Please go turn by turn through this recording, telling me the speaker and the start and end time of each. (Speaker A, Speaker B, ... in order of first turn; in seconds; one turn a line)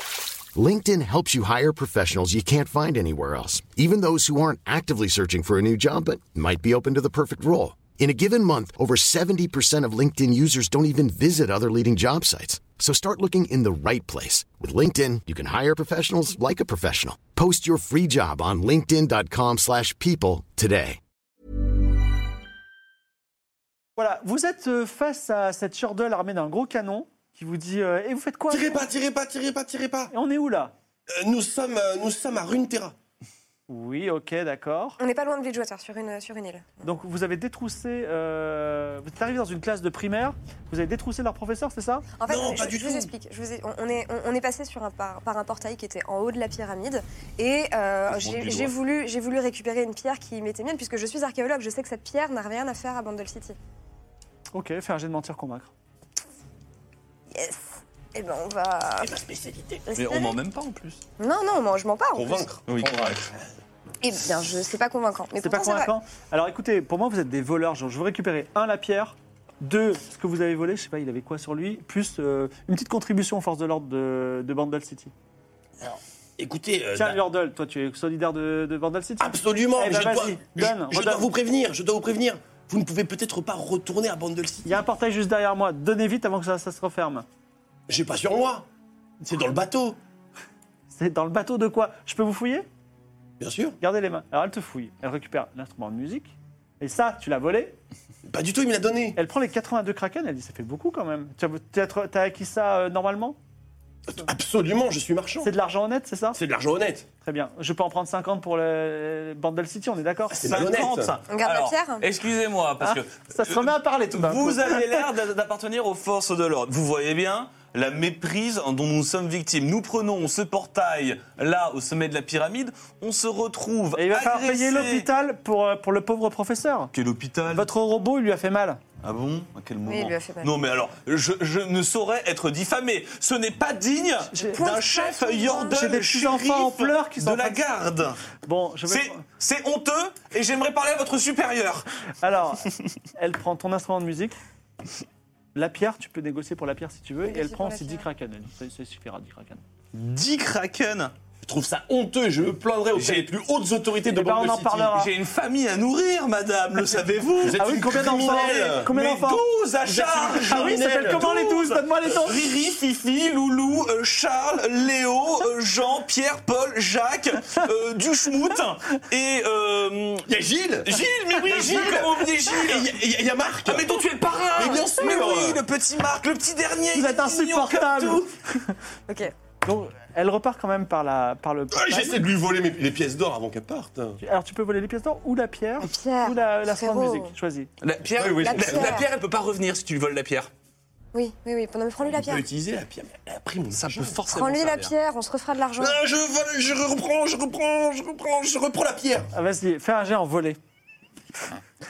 Speaker A: 0.5-21.0
Speaker B: 24.0-28.8
Speaker C: 28.5-30.1
Speaker B: 30.1-30.7
Speaker C: 31.1-32.9
Speaker B: 33.7-35.0
Speaker D: 35.0-36.9
Speaker B: 36.8-42.1
Speaker D: 42.1-53.5
Speaker C: 42.3-43.1
Speaker E: 48.0-48.7
Speaker B: 54.5-55.7
Speaker D: 57.3-59.1
Speaker C: 59.0-59.9
Speaker D: 59.9-60.4
Speaker E: 60.0-61.0
Speaker D: 61.2-62.5
Speaker C: 62.1-62.9
Speaker E: 62.7-63.3
Speaker D: 64.0-65.9
Speaker B: 65.4-75.1
Speaker C: 76.4-77.2
Speaker B: 76.9-81.3
Speaker C: 79.2-84.8
Speaker B: 84.6-87.2
Speaker C: 87.9-88.6
Speaker C: 89.2-90.0
Speaker B: 90.9-92.7
Speaker C: 93.4-93.8
Speaker B: 93.8-97.8
Speaker C: 98.2-99.2
Speaker B: 99.2-103.4
Speaker C: 104.1-105.5
Speaker B: 105.4-106.4
Speaker C: 106.3-107.0
Speaker B: 107.2-110.4
Speaker E: 110.3-125.1
Speaker C: 110.4-111.2
Speaker D: 111.3-112.1
Speaker B: 112.8-115.1
Speaker B: 124.0-126.9
Speaker E: 126.9-127.7
Speaker B: 127.5-128.8
Speaker E: 129.0-138.2
Speaker D: 129.8-130.6
Speaker B: 134.3-134.7
Speaker D: 134.5-135.9
Speaker B: 135.7-137.6
Speaker B: 138.4-139.2
Speaker E: 138.9-141.8
Speaker B: 142.2-144.4
Speaker B: 145.5-149.6
Speaker D: 147.2-148.0
Speaker E: 149.9-151.1
Speaker C: 151.4-154.9
Speaker E: 152.9-153.3
Speaker B: 154.1-155.1
Speaker E: 154.9-170.3
Speaker C: 157.4-158.9
Speaker B: 157.5-159.4
Speaker C: 159.8-161.3
Speaker B: 160.4-162.4
Speaker C: 170.3-174.0
Speaker E: 170.8-172.9
Speaker E: 173.6-178.3
Speaker C: 174.5-175.6
Speaker B: 176.9-178.7
Speaker D: 179.1-179.3
Speaker B: 179.6-182.2
Speaker C: 181.7-184.2
Speaker B: 184.2-187.7
Speaker D: 185.8-187.3
Speaker E: 187.8-190.5
Speaker C: 188.0-189.1
Speaker D: 188.4-189.1
Speaker D: 191.1-192.4
Speaker C: 192.1-194.2
Speaker E: 193.7-194.9
Speaker D: 194.3-196.0
Speaker C: 195.8-199.3
Speaker B: 199.3-200.6